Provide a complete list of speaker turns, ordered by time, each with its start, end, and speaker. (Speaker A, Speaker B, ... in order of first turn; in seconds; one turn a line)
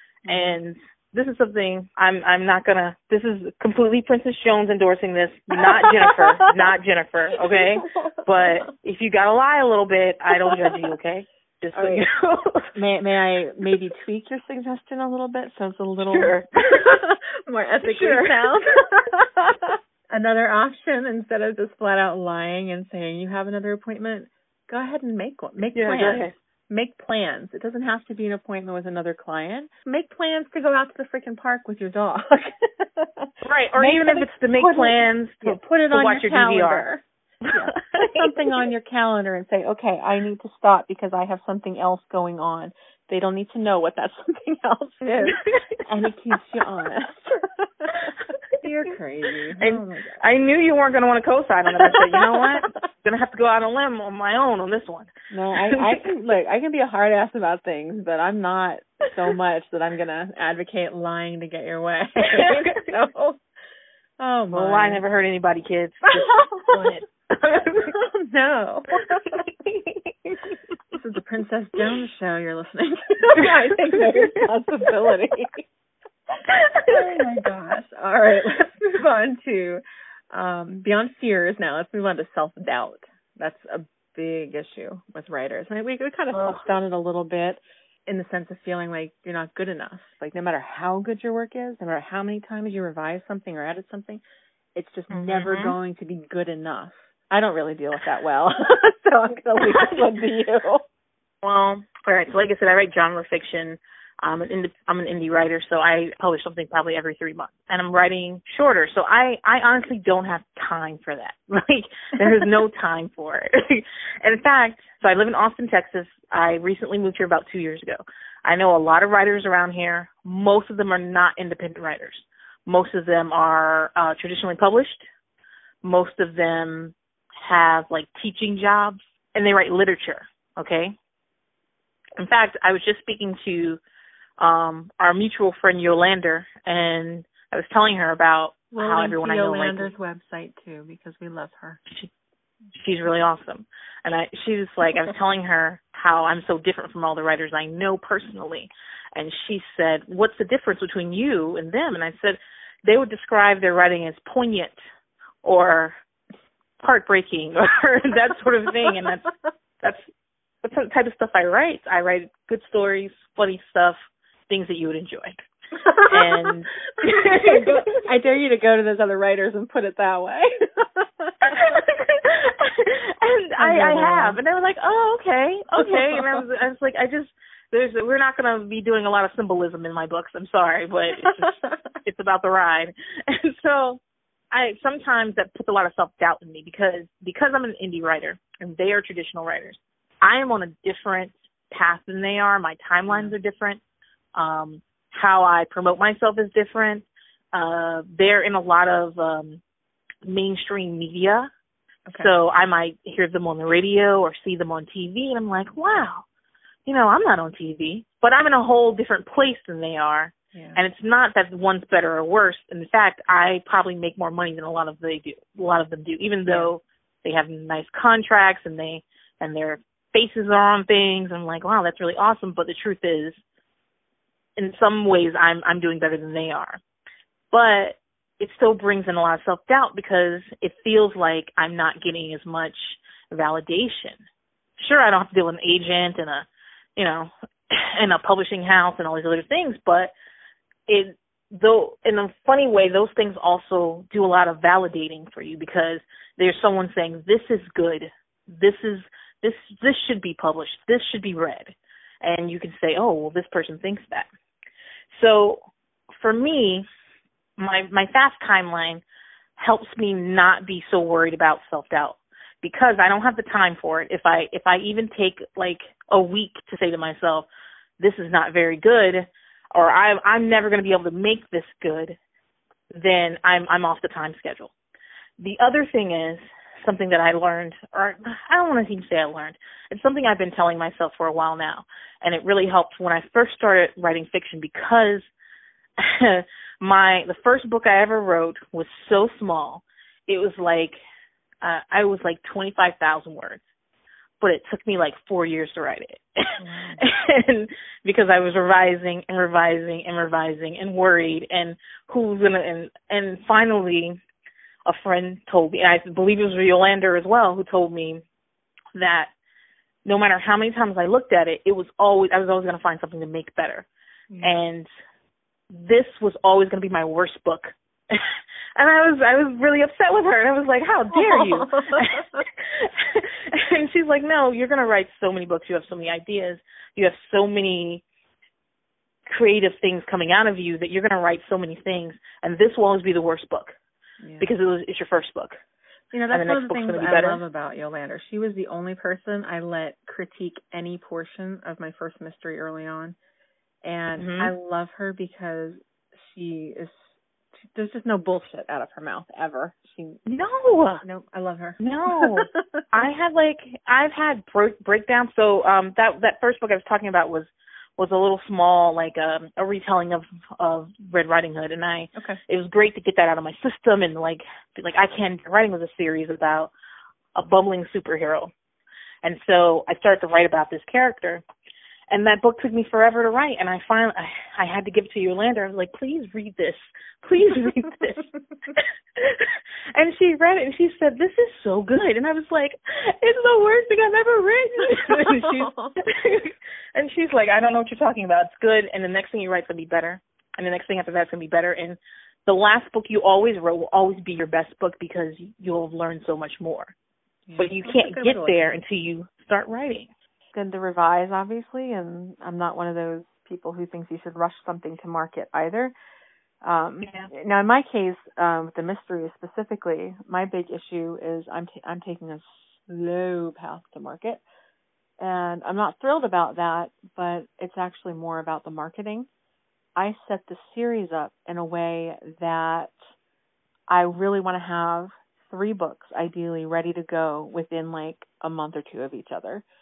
Speaker A: 0.2-0.6
Speaker B: 0.3-12.7
Speaker A: 5.5-6.6
Speaker A: 7.5-8.6
Speaker A: 10.3-10.7
Speaker A: 11.7-12.0
Speaker A: 12.7-50.2
Speaker B: 16.1-17.0
Speaker B: 17.8-18.3
Speaker B: 25.7-26.3
Speaker B: 33.4-36.9
Speaker B: 37.5-38.3
Speaker B: 45.2-45.8
Speaker B: 49.6-56.0
Speaker A: 51.8-52.7
Speaker A: 55.3-63.4
Speaker B: 62.2-62.8
Speaker A: 64.2-65.0
Speaker B: 64.5-68.0
Speaker A: 66.1-66.8
Speaker A: 67.9-69.4
Speaker B: 69.0-70.5
Speaker A: 70.9-75.7
Speaker B: 73.3-74.4
Speaker B: 76.5-77.2
Speaker A: 76.9-94.2
Speaker B: 86.3-86.6
Speaker A: 94.7-100.8
Speaker B: 95.1-95.8
Speaker B: 101.4-125.1
Speaker B: 125.8-130.9
Speaker B: 132.2-133.8
Speaker B: 134.4-139.9
Speaker A: 138.7-141.8
Speaker B: 142.7-154.8
Speaker B: 155.4-155.9
Speaker B: 156.8-159.3
Speaker B: 159.8-160.1
Speaker B: 160.6-164.0
Speaker B: 164.5-165.4
Speaker A: 165.8-166.5
Speaker B: 165.9-168.0
Speaker A: 167.0-171.3
Speaker B: 171.4-193.8
Speaker A: 173.6-174.4
Speaker A: 175.8-176.4
Speaker A: 181.2-181.7
Speaker A: 193.1-193.3
Speaker B: 194.3-199.6
Speaker B: 200.2-201.5
Speaker A: 202.1-202.3
Speaker B: 202.2-206.2
Speaker B: 206.8-223.4
Speaker A: 210.5-210.8
Speaker A: 216.5-216.7
Speaker B: 224.6-226.8
Speaker B: 227.5-234.2
Speaker B: 234.8-236.4
Speaker B: 237.0-240.1
Speaker B: 240.9-254.3
Speaker B: 255.1-255.6
Speaker B: 256.2-256.8
Speaker B: 257.6-259.0
Speaker B: 259.6-267.5
Speaker B: 268.0-272.2
Speaker B: 272.9-274.7
Speaker B: 275.4-285.3
Speaker B: 286.0-291.0
Speaker B: 291.6-293.6
Speaker B: 294.4-304.2
Speaker A: 296.6-297.0
Speaker B: 304.8-308.2
Speaker B: 308.9-309.3
Speaker B: 310.0-313.9
Speaker A: 314.3-314.6
Speaker B: 314.4-314.9
Speaker B: 315.7-328.0
Speaker A: 321.1-322.4
Speaker B: 329.3-333.7
Speaker A: 334.2-334.5
Speaker B: 334.4-335.6
Speaker A: 336.1-343.1
Speaker B: 336.3-337.4
Speaker A: 343.8-350.2
Speaker B: 344.1-344.5
Speaker B: 350.2-351.0
Speaker A: 351.0-352.8
Speaker B: 351.8-366.7
Speaker A: 362.1-362.4
Speaker B: 367.3-368.5
Speaker B: 369.2-371.4
Speaker B: 372.1-396.9
Speaker A: 385.1-386.0
Speaker A: 397.4-398.6
Speaker B: 397.6-400.1
Speaker A: 400.5-405.9
Speaker A: 406.6-414.4
Speaker B: 407.0-407.3
Speaker A: 415.2-419.3
Speaker A: 419.9-422.9
Speaker A: 423.9-429.6